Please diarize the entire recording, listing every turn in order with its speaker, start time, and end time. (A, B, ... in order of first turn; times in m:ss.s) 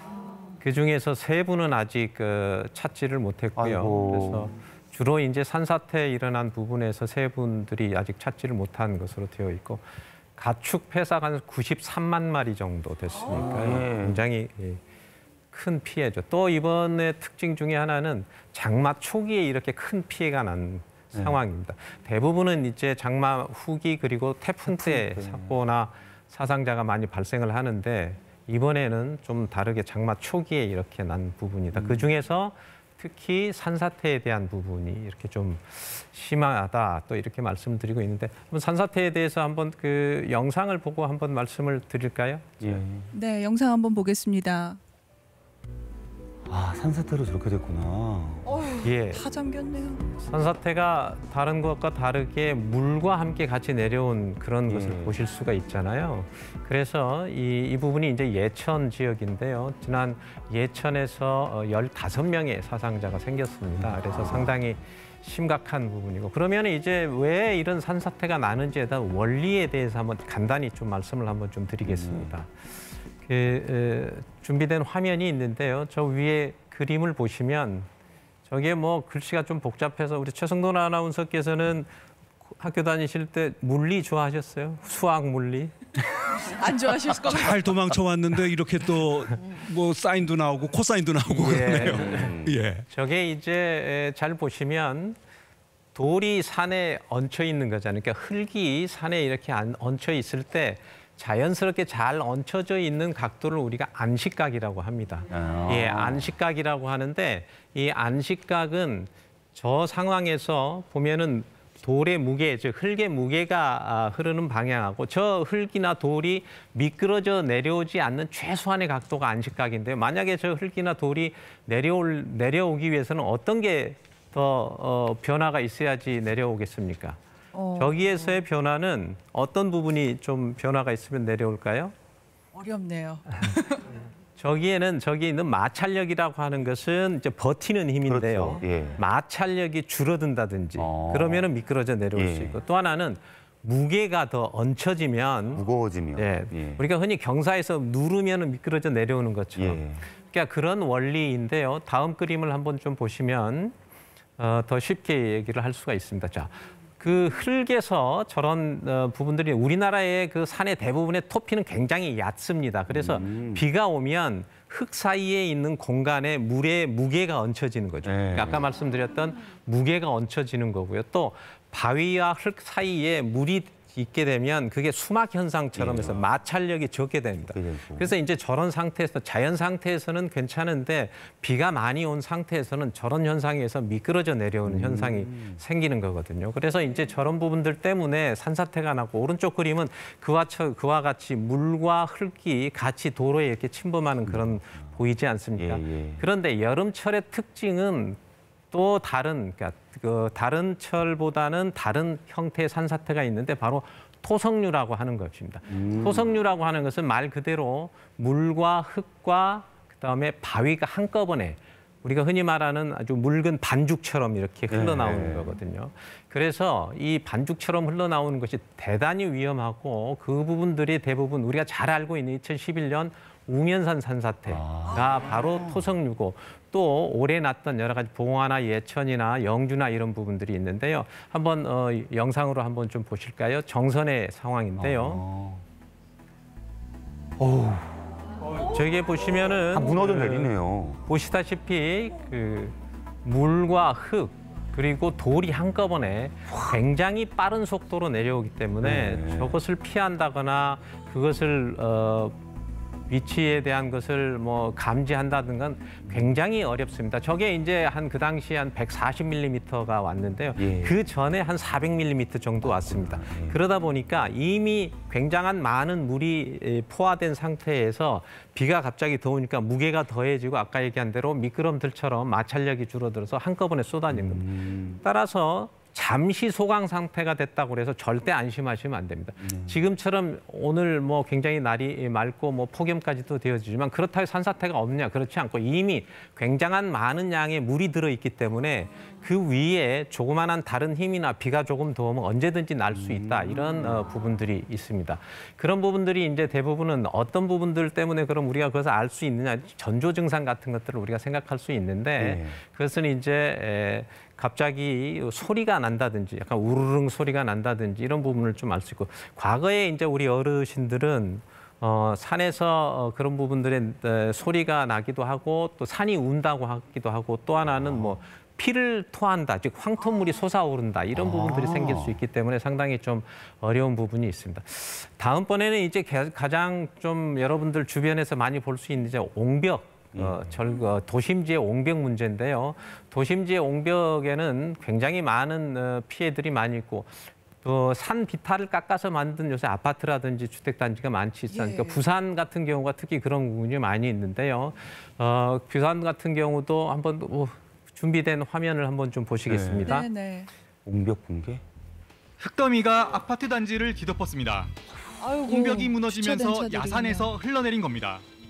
0:00.6-0:09.8 A
0:03.6-0:04.6 B
0:10.4-0:14.8 A
0:13.2-0:14.3 B
0:15.5-0:42.8 A
0:24.7-0:25.6 B
0:31.7-0:32.1 B
0:42.6-0:43.1 B
0:43.1-0:44.8 C
0:46.5-0:48.6 B
0:48.5-0:50.1 C
0:48.8-0:49.2 A
0:50.2-1:17.9 A
0:54.7-0:55.2 B
1:03.8-1:04.6 B
1:11.8-1:12.4 B
1:18.4-1:21.9 A
1:22.6-1:25.8 A
1:26.4-1:27.8 C
1:27.2-1:32.8 D
1:31.3-1:35.2 A
1:31.6-1:32.6 B
1:36.0-2:07.2 A
1:45.3-1:46.4 B
2:07.5-2:08.4 C
2:07.8-2:11.9 A
2:12.5-2:13.9 C
2:14.4-2:33.8 A
2:18.1-2:19.0 B
2:20.8-2:21.5 B
2:22.1-2:22.6 B
2:25.6-2:26.8 B
2:29.6-2:30.0 B
2:34.4-3:18.2 A
2:42.9-2:43.7 B
2:48.0-2:48.7 B
2:55.8-2:56.2 B
2:57.5-2:58.1 B
3:04.6-3:05.6 B
3:14.2-3:15.0 B
3:15.6-3:16.2 B
3:18.7-3:55.2 A
3:25.7-3:26.3 B
3:34.7-3:35.6 B
3:44.5-3:45.9 B
3:54.8-3:55.6 B
3:57.4-3:58.2 B
3:58.6-4:12.4 A
3:59.7-4:01.0 B
4:08.8-4:09.6 B
4:13.1-5:50.1 A
4:16.0-4:16.3 B
4:20.6-4:21.0 B
4:22.8-4:23.6 B
4:34.1-4:35.0 B
4:39.4-4:39.8 B
4:52.9-4:54.0 B
5:02.2-5:02.6 B
5:17.6-5:18.2 B
5:21.1-5:22.2 B
5:30.1-5:30.6 B
5:41.5-5:42.0 C
5:49.5-5:50.0 B
5:49.8-5:50.5 C
5:50.8-5:51.6 B
5:52.4-5:54.8 E
5:55.2-5:57.4 C
5:55.4-5:58.2 E